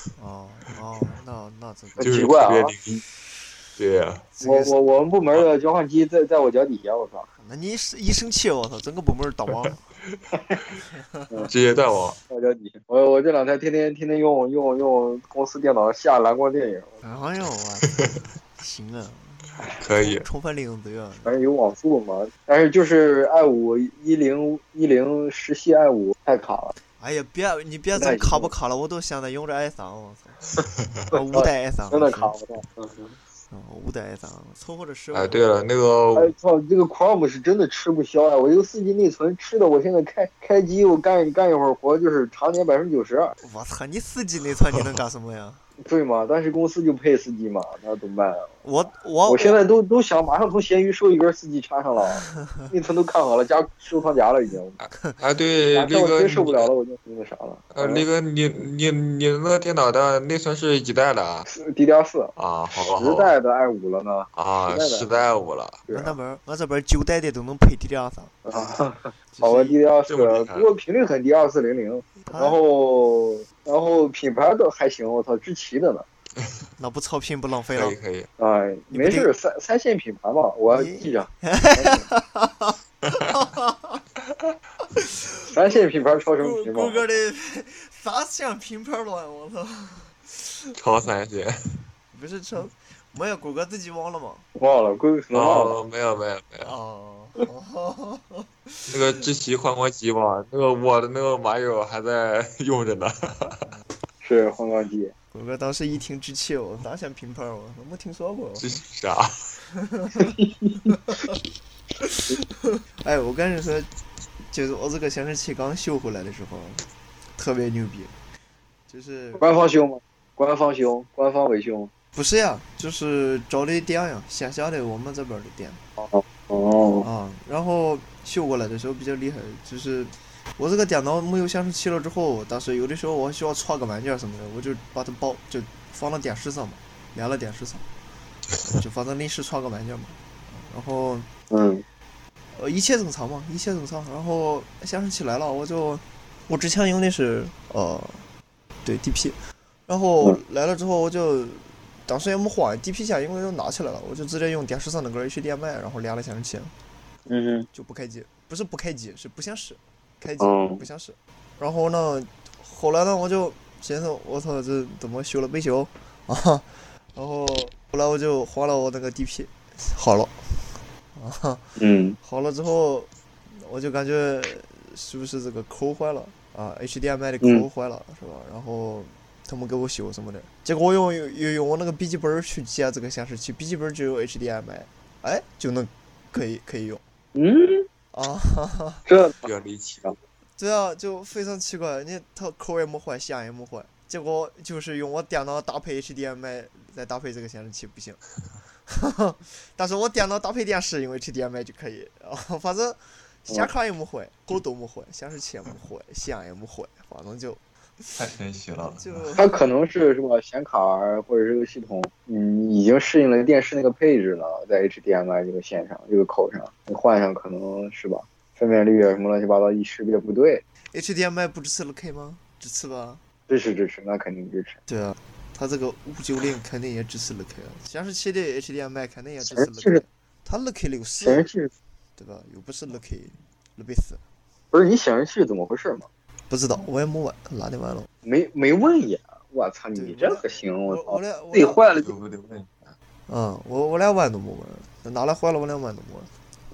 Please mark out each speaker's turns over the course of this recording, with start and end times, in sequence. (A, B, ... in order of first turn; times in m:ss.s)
0:00.2-0:02.3 A
0:02.0-0:02.7 B
0:02.0-0:03.0 C
0:03.8-0:04.2 C
0:04.3-0:04.8 A
0:04.4-0:07.3 B
0:07.4-0:09.8 A
0:10.1-0:10.6 C
0:10.9-0:11.5 A
0:11.5-0:12.2 C
0:12.3-0:17.0 B
0:17.0-0:21.3 A
0:19.8-0:20.2 C
0:21.2-0:26.8 B
0:27.0-0:30.5 A
0:28.0-0:28.5 B
0:31.1-0:32.4 A
0:31.1-0:33.2 B
0:33.5-0:35.5 A
0:35.1-0:36.3 C
0:36.1-0:43.4 B
0:43.4-0:45.6 A
0:45.8-0:48.6 B
0:48.6-0:49.6 A
0:49.3-0:54.8 B
0:52.4-0:52.7 A
0:54.8-0:56.7 C
0:55.7-0:58.1 B
0:57.7-1:01.5 C
1:01.5-1:02.3 B
1:02.4-1:03.3 C
1:02.9-1:05.1 B
1:04.3-1:05.8 C
1:05.9-1:06.2 B
1:05.9-1:08.4 A
1:08.4-1:16.0 B
1:09.3-1:09.8 A
1:10.1-1:10.7 C
1:12.2-1:12.6 A
1:16.8-1:18.0 A
1:17.7-1:18.3 C
1:18.4-1:22.1 B
1:18.9-1:19.3 A
1:20.7-1:24.0 A
1:24.9-1:25.6 A
1:25.5-1:27.0 B
1:26.4-1:30.7 A
1:30.8-1:31.6 C
1:32.1-1:34.4 A
1:34.6-1:35.7 B
1:35.3-1:36.7 C
1:36.6-1:38.9 A
1:38.9-1:43.6 C
1:44.2-1:45.1 B
1:45.3-1:48.7 A
1:48.6-1:49.3 C
1:49.7-1:50.3 A
1:50.2-1:50.8 B
1:50.9-1:51.4 A
1:52.0-1:53.9 A
1:54.5-1:56.8 A
1:57.4-1:58.1 A
1:58.9-1:59.4 A
1:59.4-2:01.9 B
2:02.1-2:05.8 A
2:06.0-2:07.1 B
2:07.0-2:17.9 A
2:18.6-2:21.3 A
2:21.5-2:21.8 B
2:22.6-2:28.2 A
2:28.8-2:29.4 A
2:29.9-2:36.7 A
2:37.3-2:37.7 B
2:37.7-3:07.0 A
2:40.4-2:40.8 B
2:51.8-2:52.2 B
3:07.3-3:07.9 B
3:08.1-3:09.0 A
3:09.1-3:09.4 B
3:09.4-3:10.1 C
3:10.6-3:18.2 A
3:18.9-3:28.2 A
3:28.2-3:29.3 C
3:28.9-3:29.5 A
3:29.4-3:40.6 B
3:40.9-3:43.2 A
3:43.5-3:44.8 B
3:44.9-3:51.5 A
3:49.5-3:50.0 B
3:51.2-3:51.7 B
3:52.2-3:54.2 A
3:54.7-3:56.1 B
3:56.5-3:58.1 A
3:58.2-4:02.1 B
4:00.0-4:01.8 A
4:02.0-4:03.0 C
4:03.3-4:06.3 A